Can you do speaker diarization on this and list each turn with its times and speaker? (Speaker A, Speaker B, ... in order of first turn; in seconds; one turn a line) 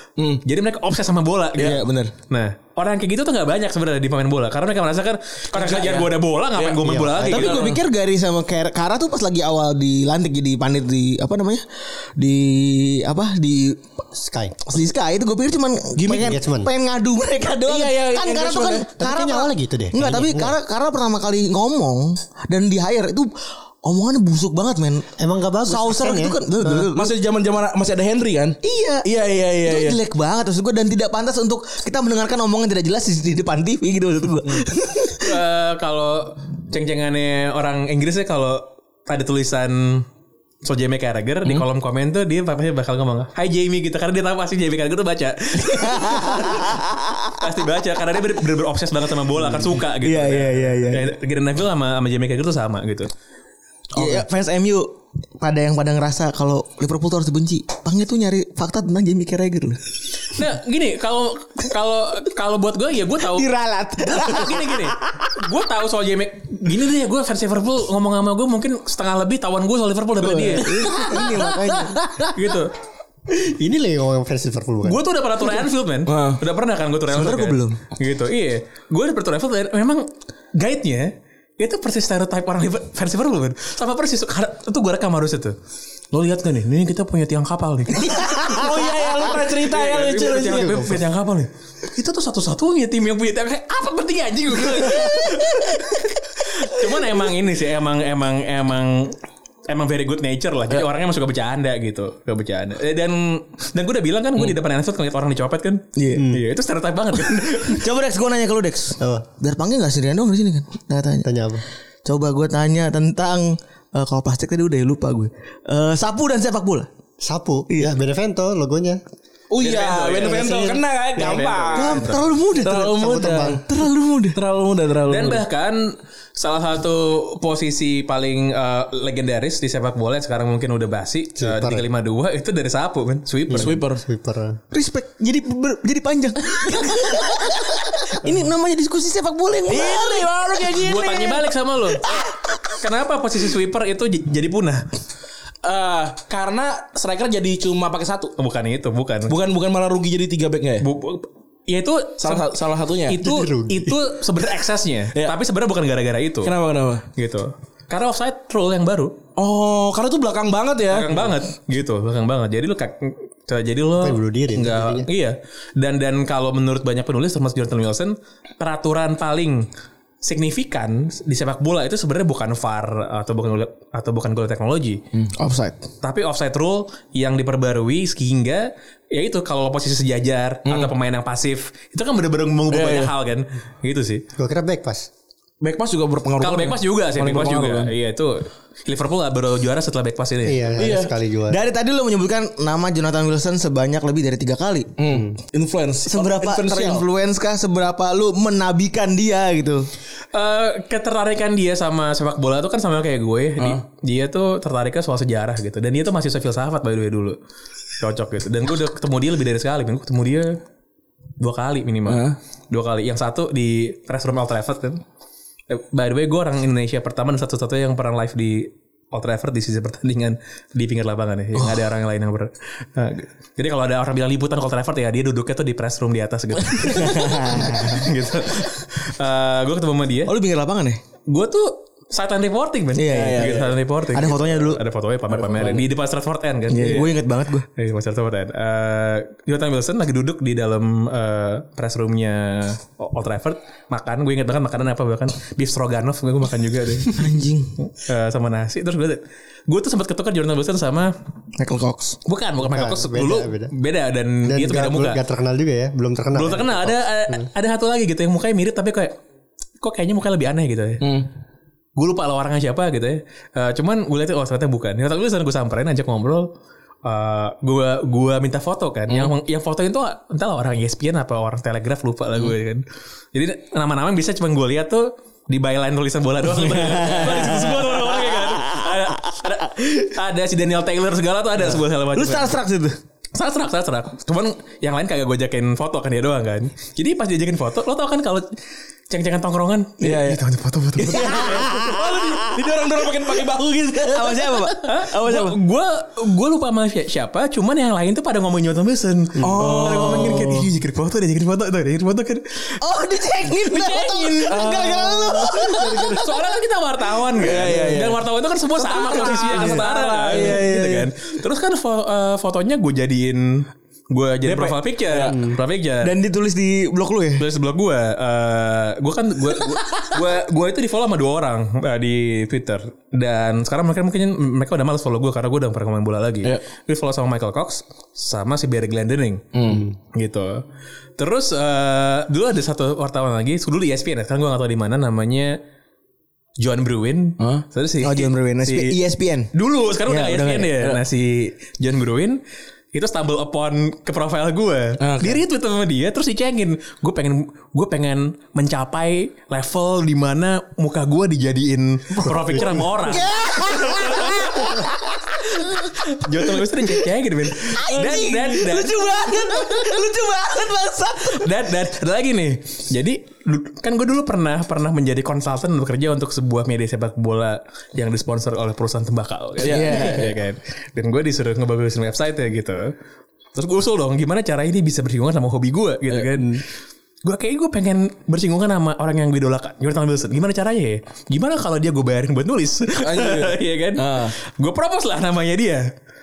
Speaker A: 0.2-0.4
Speaker B: 0.5-7.7
Speaker C: 1.6-2.1
Speaker A: 5.5-6.8
Speaker D: 6.8-7.5
Speaker C: 7.2-13.9
Speaker A: 7.3-7.8
Speaker D: 14.2-14.6
Speaker C: 14.6-23.3
Speaker A: 16.0-16.4
Speaker D: 16.1-16.7
Speaker A: 17.7-18.9
Speaker D: 19.0-20.5
Speaker C: 23.8-25.1
Speaker D: 25.2-26.4
Speaker C: 25.6-27.1
Speaker A: 26.6-30.0
Speaker C: 28.6-29.1
Speaker C: 29.6-35.4
Speaker B: 35.2-40.1
Speaker B: 40.6-46.8
Speaker C: 45.7-47.4
Speaker B: 47.3-53.1
Speaker C: 49.4-51.1
Speaker C: 54.0-59.8
Speaker A: 54.0-54.2
Speaker B: 60.3-63.5
Speaker C: 63.2-65.2
Speaker B: 64.1-71.4
Speaker C: 70.2-72.1
Speaker A: 70.3-71.1
Speaker B: 72.3-72.7
Speaker D: 73.3-75.0
Speaker B: 74.8-85.6
Speaker A: 76.1-76.4
Speaker C: 77.1-77.8
Speaker B: 86.1-88.7
Speaker A: 88.3-91.0
Speaker B: 89.5-107.9
Speaker C: 106.0-106.3
Speaker D: 106.2-106.4
Speaker C: 107.7-111.3
Speaker D: 109.0-109.2
Speaker D: 111.2-111.6
Speaker C: 112.0-116.9
Speaker D: 117.2-119.0
Speaker A: 119.5-123.6
Speaker B: 119.6-122.2
Speaker D: 120.2-121.4
Speaker C: 121.7-123.0
Speaker D: 122.8-123.6
Speaker C: 123.6-124.4
Speaker A: 124.3-125.4
Speaker B: 125.1-133.8
Speaker D: 131.4-131.8
Speaker D: 133.5-134.6
Speaker A: 133.5-134.0
Speaker C: 134.7-140.3
Speaker A: 139.7-141.4
Speaker B: 140.8-142.1
Speaker B: 142.8-144.8
Speaker A: 145.6-148.3
Speaker B: 148.4-149.3
Speaker A: 149.3-150.9
Speaker B: 150.8-156.5
Speaker A: 152.2-153.2
Speaker D: 153.2-154.0
Speaker A: 156.4-157.1
Speaker B: 157.2-159.2
Speaker A: 159.4-161.2
Speaker B: 160.9-169.7
Speaker D: 164.0-165.1
Speaker B: 170.2-175.0
Speaker C: 175.4-175.8
Speaker B: 176.0-184.2
Speaker A: 180.7-180.9
Speaker A: 182.7-183.1
Speaker D: 184.4-185.1
Speaker A: 185.6-187.9
Speaker B: 186.4-190.8
Speaker D: 190.4-191.6
Speaker A: 190.8-191.1
Speaker C: 191.5-194.9
Speaker A: 195.0-197.1
Speaker C: 196.1-199.9
Speaker B: 200.3-207.4
Speaker A: 203.6-203.8
Speaker B: 208.0-210.6
Speaker B: 211.4-215.0
Speaker A: 212.1-212.4
Speaker B: 215.7-230.3
Speaker A: 226.8-227.5
Speaker C: 226.9-228.0
Speaker C: 230.3-231.0
Speaker B: 231.3-237.2
Speaker C: 232.9-234.8
Speaker A: 233.1-233.7
Speaker A: 235.3-235.8
Speaker C: 236.7-237.7
Speaker B: 237.8-247.2
Speaker C: 247.1-247.8
Speaker B: 247.8-251.1
Speaker C: 251.6-252.2
Speaker B: 252.3-255.2
Speaker D: 252.6-253.7
Speaker D: 254.4-257.5
Speaker B: 256.3-259.2
Speaker B: 259.8-261.1
Speaker A: 261.0-261.3
Speaker B: 262.0-266.5
Speaker B: 267.0-282.6
Speaker C: 276.8-279.3
Speaker C: 282.1-283.0
Speaker B: 283.4-288.5
Speaker B: 289.1-291.6
Speaker A: 290.0-290.4
Speaker C: 291.0-292.7
Speaker A: 291.1-294.4
Speaker C: 293.9-295.6
Speaker B: 294.8-302.8
Speaker A: 299.4-300.7
Speaker C: 302.8-306.3
Speaker B: 303.5-305.0
Speaker A: 304.4-306.1
Speaker B: 305.5-316.1
Speaker A: 307.4-308.2
Speaker A: 308.8-311.1
Speaker A: 314.4-315.4
Speaker C: 316.0-317.5
Speaker B: 317.4-329.5
Speaker A: 329.5-329.9
Speaker B: 330.1-330.6
Speaker B: 331.2-335.6
Speaker B: 336.6-339.0
Speaker A: 337.4-337.6
Speaker C: 338.0-339.5
Speaker B: 339.5-342.4
Speaker C: 340.1-340.8
Speaker B: 342.9-354.8
Speaker A: 345.0-345.4
Speaker C: 353.0-356.6
Speaker B: 355.6-359.9
Speaker C: 357.6-361.5
Speaker B: 361.2-372.9
Speaker A: 369.6-370.4
Speaker C: 369.6-370.4
Speaker B: 373.6-376.6
Speaker A: 376.1-376.5
Speaker B: 377.2-385.9
Speaker A: 383.0-384.4